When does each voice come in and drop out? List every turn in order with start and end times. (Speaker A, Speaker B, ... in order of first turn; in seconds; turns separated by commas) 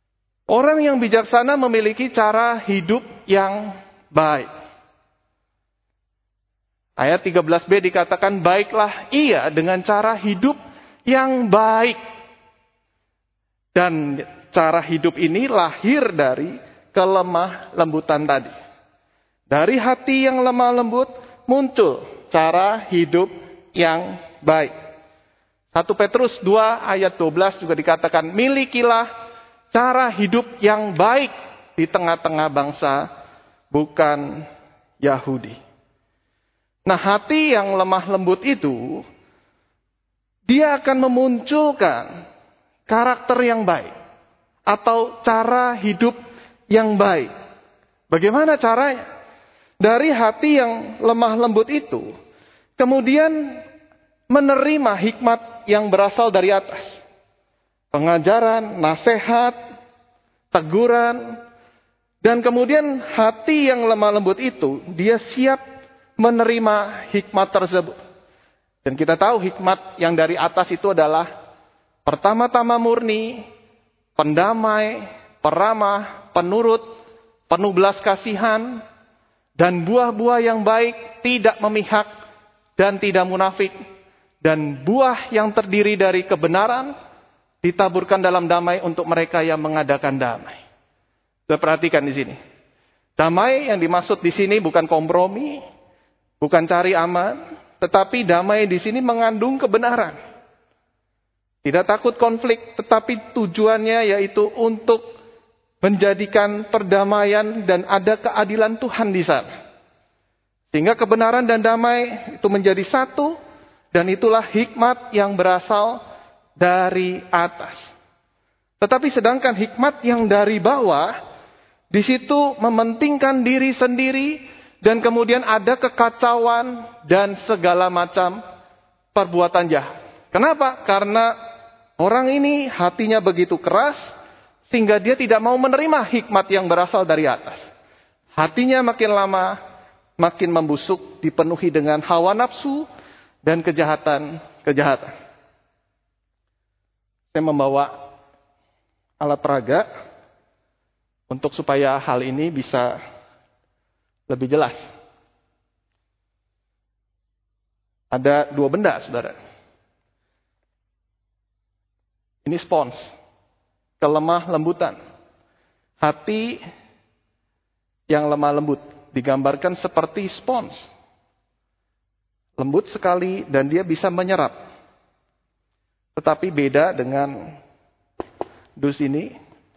Speaker A: 0.5-4.5, Speaker A: 7.0-12.0, Speaker A: 13.8-18.5, Speaker A: 19.5-24.7, Speaker A: 25.7-29.1, Speaker A: 29.7-33.1, Speaker A: 33.7-34.5, Speaker A: 35.0-35.6, Speaker A: 36.9-39.0, Speaker A: 40.5-42.1, Speaker A: 42.9-43.9, Speaker A: 44.7-46.2, Speaker A: 46.7-47.3, Speaker A: 48.1-49.1, Speaker A: 49.8-52.1, Speaker A: 52.8-53.6, Speaker A: 54.3-57.0, Speaker A: 57.9-59.6, Speaker A: 60.5-61.4, Speaker A: 62.2-65.6, Speaker A: 66.2-68.0, Speaker A: 68.8-71.3, Speaker A: 72.0-73.4, Speaker A: 74.2-76.8, Speaker A: 77.5-78.8, Speaker A: 79.6-82.1, Speaker A: 82.8-83.8, Speaker A: 84.4-86.9, Speaker A: 87.6-90.6, Speaker A: 91.5-92.4, Speaker A: 93.2-95.6, Speaker A: 96.4-100.2, Speaker A: 101.6-105.0, Speaker A: 105.8-109.5, Speaker A: 110.7-113.4, Speaker A: 113.9-116.0, Speaker A: 116.6-117.9, Speaker A: 118.8-121.1, Speaker A: 121.9-128.4, Speaker A: 129.1-131.3, Speaker A: 132.0-134.1, Speaker A: 134.7-137.6, Speaker A: 138.4-139.6, Speaker A: 140.2-142.9, Speaker A: 143.5-145.1, Speaker A: 147.3-147.9, Speaker A: 149.2-149.9, Speaker A: 151.3-152.9, Speaker A: 154.3-154.9, Speaker A: 158.1-159.3, Speaker A: 162.4-163.1, Speaker A: 164.0-165.0, Speaker A: 166.0-166.6, Speaker A: 168.1-170.9, Speaker A: 172.6-174.6, Speaker A: 176.2-177.5, Speaker A: 178.8-179.3